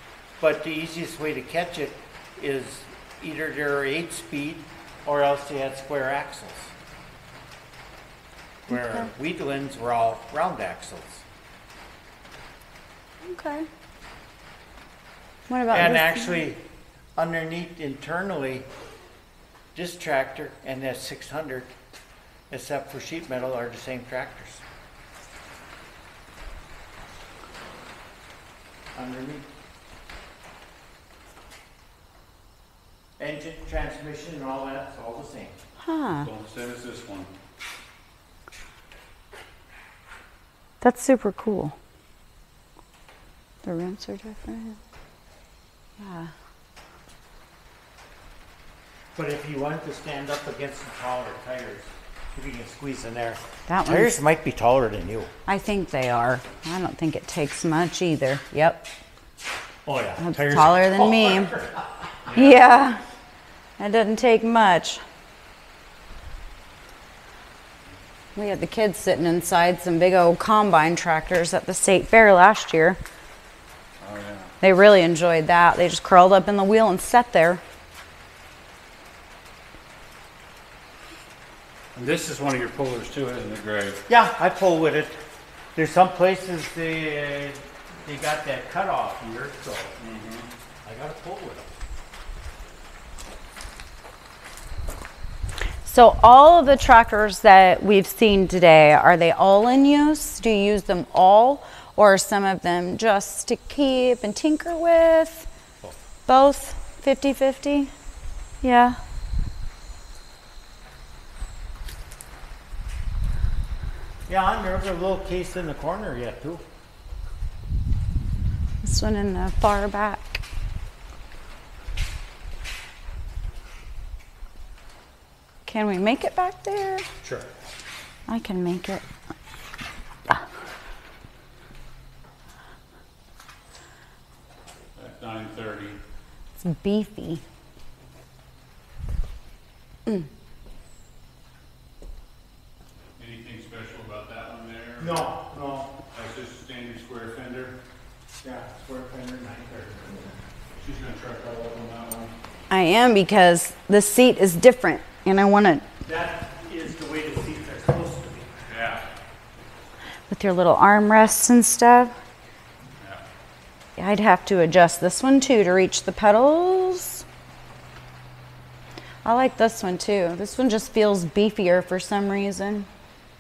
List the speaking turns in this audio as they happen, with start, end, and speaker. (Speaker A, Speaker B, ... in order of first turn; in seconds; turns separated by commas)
Speaker A: 0.4-6.8, Speaker A: 8.7-11.3, Speaker B: 13.2-13.7, Speaker B: 15.5-16.4, Speaker A: 15.7-16.6, Speaker A: 17.1-18.7, Speaker A: 19.7-21.8, Speaker A: 22.5-24.6, Speaker A: 28.9-29.5, Speaker A: 33.2-35.6, Speaker B: 35.8-36.3, Speaker C: 36.2-37.3, Speaker B: 40.8-41.8, Speaker B: 43.6-44.8, Speaker B: 46.0-46.3, Speaker A: 49.1-55.3, Speaker B: 53.7-54.1, Speaker B: 55.5-58.9, Speaker A: 59.9-62.9, Speaker B: 60.2-61.5, Speaker B: 62.3-63.0, Speaker B: 63.8-65.0, Speaker B: 68.3-73.0, Speaker C: 74.0-74.5, Speaker B: 74.6-77.6, Speaker C: 82.0-84.0, Speaker A: 84.1-85.2, Speaker A: 85.8-89.9, Speaker C: 90.0-90.5, Speaker A: 90.8-91.7, Speaker B: 95.8-105.5, Speaker B: 106.3-107.9, Speaker B: 108.6-109.0, Speaker A: 114.3-116.6, Speaker B: 118.8-120.4, Speaker B: 125.7-127.1, Speaker A: 127.2-127.5, Speaker B: 128.3-129.0, Speaker C: 135.0-136.0, Speaker B: 136.6-137.4, Speaker C: 143.2-145.3, Speaker A: 145.0-145.9, Speaker C: 146.1-147.8, Speaker A: 148.4-150.3, Speaker C: 150.8-152.4, Speaker B: 152.7-155.8, Speaker A: 156.1-158.6, Speaker C: 158.7-159.1, Speaker B: 160.3-162.1, Speaker B: 164.0-167.2, Speaker B: 169.2-172.9